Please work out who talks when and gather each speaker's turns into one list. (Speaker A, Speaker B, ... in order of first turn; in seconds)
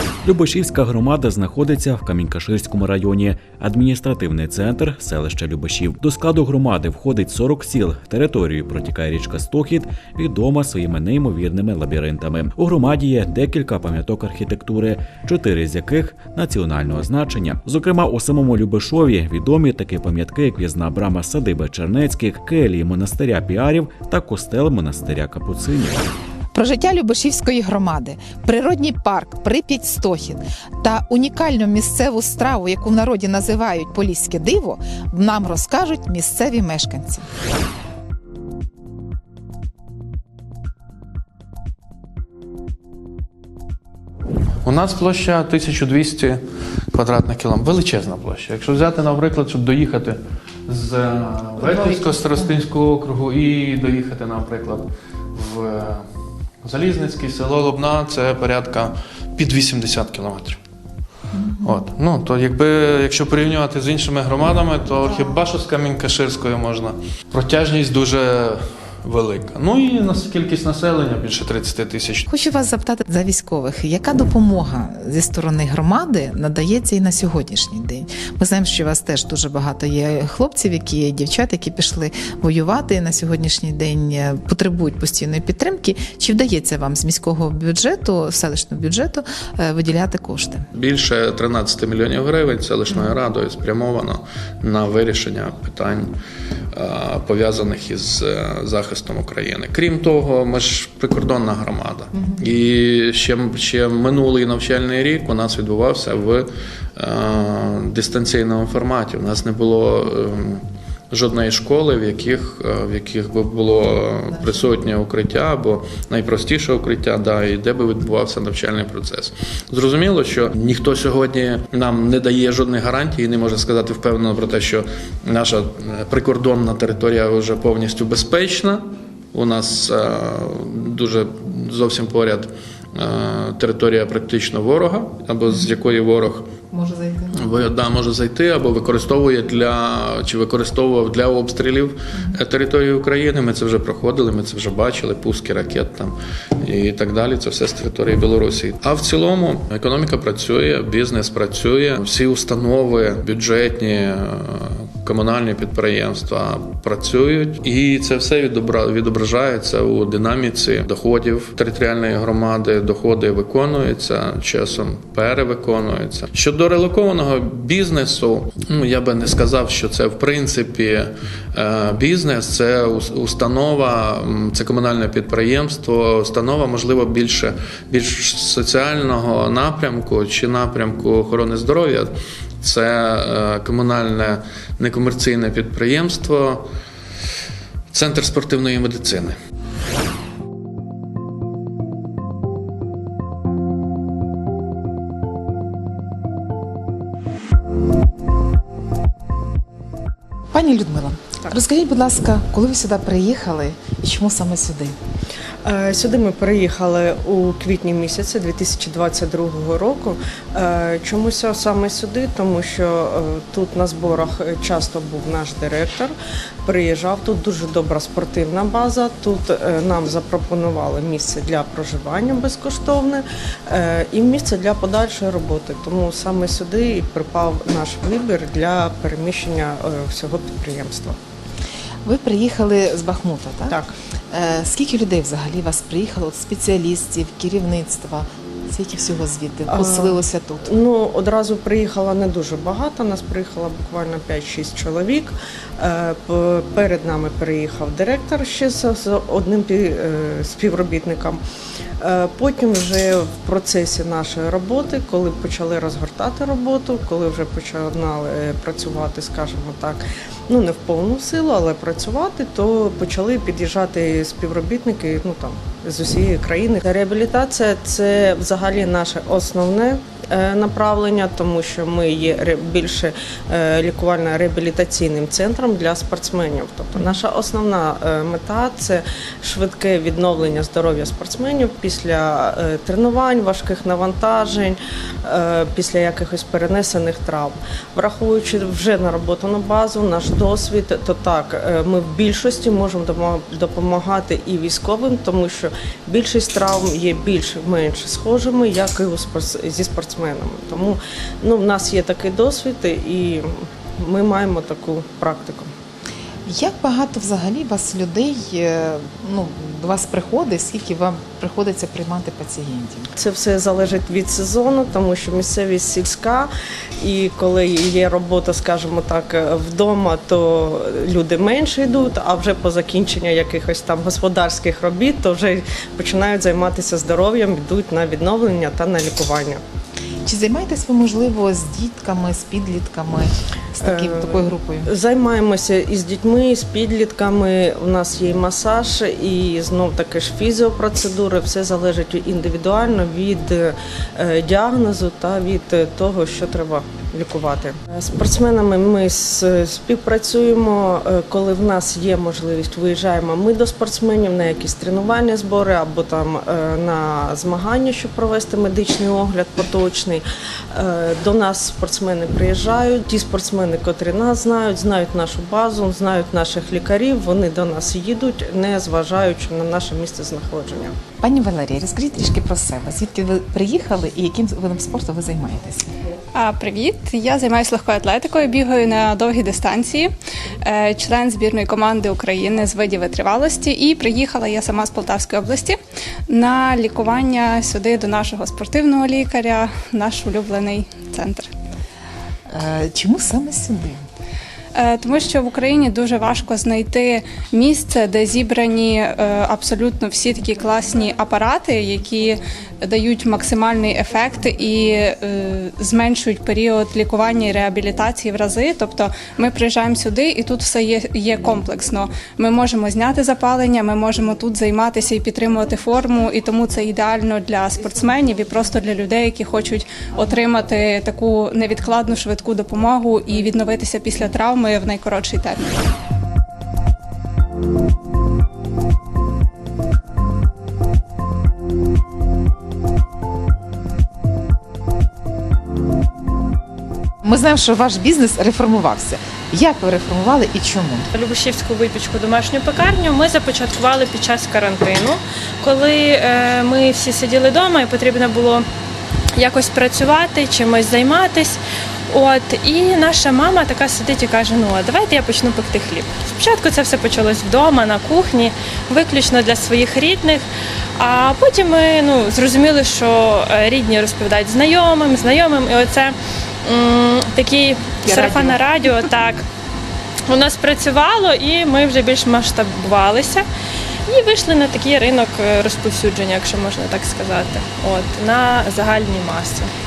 Speaker A: 0.2-26.1
Speaker B: 26.5-37.2, 51.6-52.5, 61.3-61.9, 65.0-65.4, 72.3-90.7, 114.3-114.6, 136.7-137.3, 200.5-204.9, 232.0-233.8, 234.3-240.7, 306.4-313.1, 330.2-334.9, 371.2-375.9, 392.5-394.0, 437.2-441.1, 468.1-468.6
Speaker C: 44.6-56.1, 56.6-60.6, 61.6-72.3, 90.7-96.1, 96.7-136.5, 137.3-186.7, 187.9-189.4
Speaker D: 205.6-216.1, 216.6-231.2, 239.7-251.4, 252.0-305.7, 313.1-329.6, 333.8-370.9
Speaker E: 376.3-380.1, 380.6-391.5, 394.7-425.8
Speaker F: 441.1-448.6, 449.4-460.4, 461.0-469.4, 470.3-473.4, 474.1-479.7